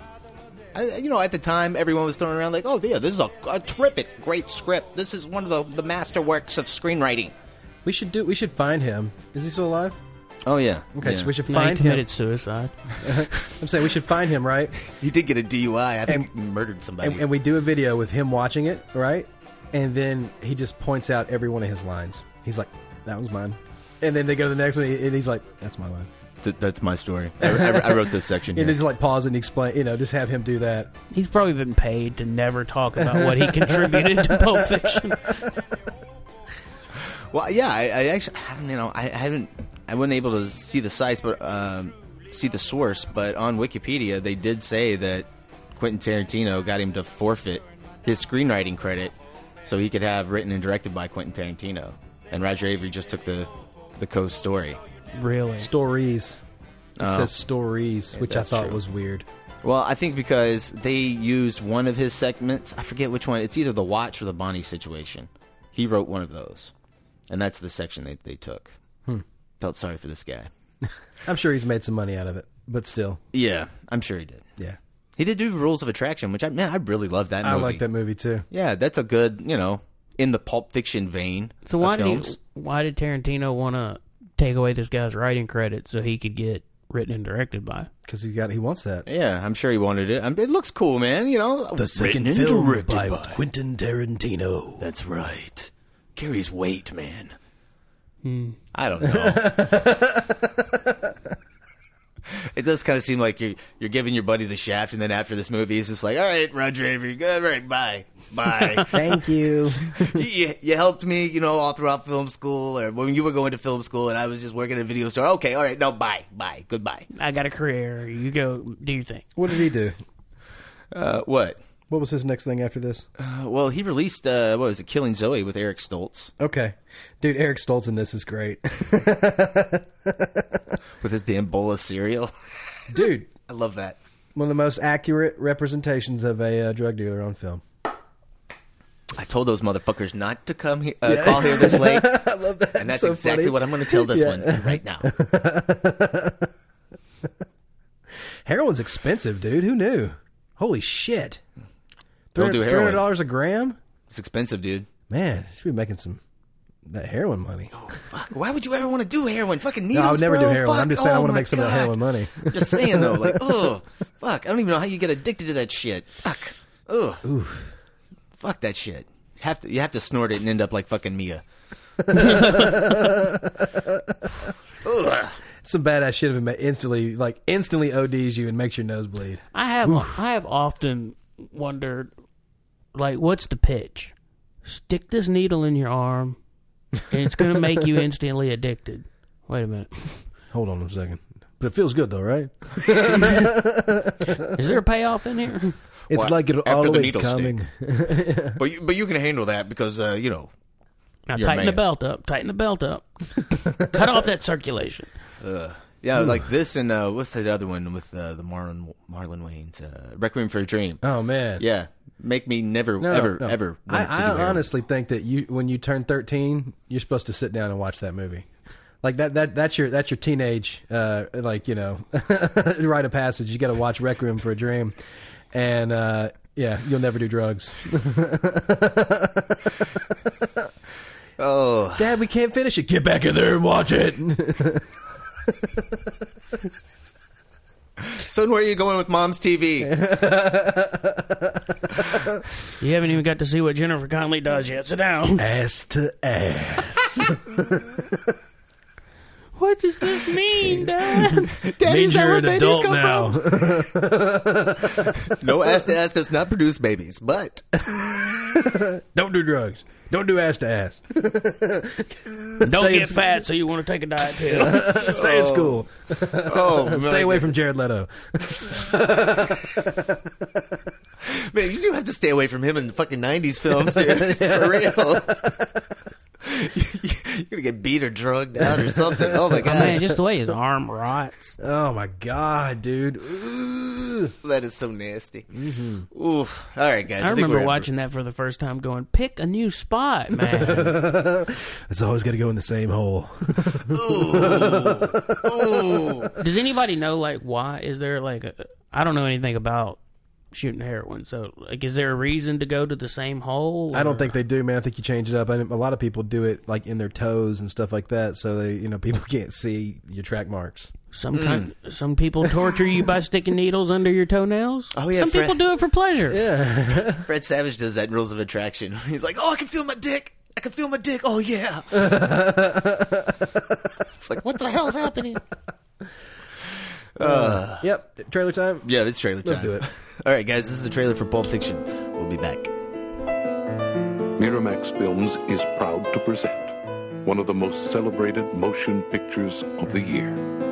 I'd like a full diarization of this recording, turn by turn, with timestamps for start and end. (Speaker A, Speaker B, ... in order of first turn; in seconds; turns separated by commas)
Speaker A: 0.7-7.3, Speaker B: 7.8-9.9, Speaker A: 10.4-11.3, Speaker B: 11.0-12.0, Speaker C: 11.5-12.8, Speaker B: 13.0-14.8, Speaker A: 14.8-17.2, Speaker B: 17.0-26.1, Speaker A: 26.4-28.8, Speaker B: 27.4-30.9, Speaker C: 31.1-35.4, Speaker B: 33.0-35.5, Speaker A: 37.3-54.8, Speaker C: 55.1-55.7, Speaker B: 55.6-56.4, Speaker A: 57.0-57.3, Speaker B: 57.0-59.2, Speaker A: 58.1-58.8, Speaker A: 59.6-66.7, Speaker A: 67.3-68.7, Speaker A: 69.6-70.5, Speaker B: 71.2-73.2, Speaker A: 73.3-74.4, Speaker A: 75.2-77.8, Speaker B: 77.4-78.4, Speaker A: 78.5-82.4, Speaker C: 81.7-87.9, Speaker B: 88.0-89.1, Speaker A: 89.1-93.4, Speaker B: 91.7-94.8, Speaker A: 94.8-97.3, Speaker C: 98.2-98.6, Speaker A: 98.7-99.9, Speaker B: 99.0-101.1, Speaker A: 102.3-109.1, Speaker B: 108.9-110.2, Speaker A: 110.0-117.1, Speaker C: 117.1-119.2, Speaker B: 119.4-120.0, Speaker A: 120.9-121.6, Speaker B: 121.9-123.0, Speaker A: 123.2-126.3, Speaker B: 126.4-130.8, Speaker A: 131.0-132.3, Speaker B: 132.9-133.3, Speaker A: 133.5-134.0, Speaker B: 134.3-137.6, Speaker A: 139.1-142.2, Speaker B: 141.0-146.5, Speaker A: 142.8-145.1, Speaker B: 148.4-151.4, Speaker A: 152.3-153.1, Speaker B: 152.3-153.8, Speaker A: 154.1-154.9, Speaker B: 155.1-156.2, Speaker B: 156.9-157.7, Speaker A: 157.7-167.2, Speaker B: 159.9-163.7, Speaker B: 167.2-167.7, Speaker A: 168.4-171.4, Speaker B: 172.1-174.3, Speaker A: 172.1-172.8, Speaker A: 174.8-175.4, Speaker B: 175.6-180.1, Speaker C: 179.5-182.1, Speaker C: 182.9-186.4, Speaker C: 187.1-190.2, Speaker B: 190.5-194.5, Speaker C: 194.5-195.7, Speaker B: 196.1-198.6, Speaker A: 196.1-197.6, Speaker A: 198.6-200.5, Speaker C: 201.3-205.1, Speaker A: 201.3-201.8, Speaker A: 205.4-211.0, Speaker B: 211.0-211.6, Speaker A: 211.6-214.6, Speaker B: 213.0-218.5, Speaker B: 219.0-224.9, Speaker B: 225.5-230.7, Speaker A: 231.4-232.1, Speaker B: 231.9-234.9, Speaker B: 235.4-236.1, Speaker A: 238.0-239.9, Speaker B: 239.8-241.7, Speaker C: 242.8-245.4, Speaker B: 245.4-248.2, Speaker C: 249.6-251.5, Speaker B: 251.0-255.8, Speaker A: 251.6-253.8, Speaker A: 255.2-257.7, Speaker B: 257.9-263.4, Speaker C: 262.6-265.0, Speaker B: 264.4-270.3, Speaker A: 264.9-267.6, Speaker A: 271.2-275.5, Speaker B: 273.7-275.8, Speaker A: 276.4-280.0, Speaker B: 278.6-280.1, Speaker C: 279.6-281.6, Speaker B: 281.6-284.3, Speaker A: 284.4-285.5, Speaker B: 285.5-286.1, Speaker A: 286.1-287.9, Speaker C: 287.2-291.0, Speaker B: 290.5-296.3, Speaker A: 293.9-296.3, Speaker C: 296.4-300.0, Speaker C: 300.5-304.4, Speaker B: 303.9-310.9, Speaker C: 311.1-316.4, Speaker A: 311.3-311.7, Speaker A: 314.9-315.6, Speaker B: 316.3-317.3, Speaker A: 317.1-322.3, Speaker B: 321.9-323.8, Speaker A: 324.2-325.4, Speaker A: 327.1-327.9, Speaker B: 327.2-328.9, Speaker A: 328.9-332.7, Speaker B: 329.4-329.9, Speaker D: 334.4-340.4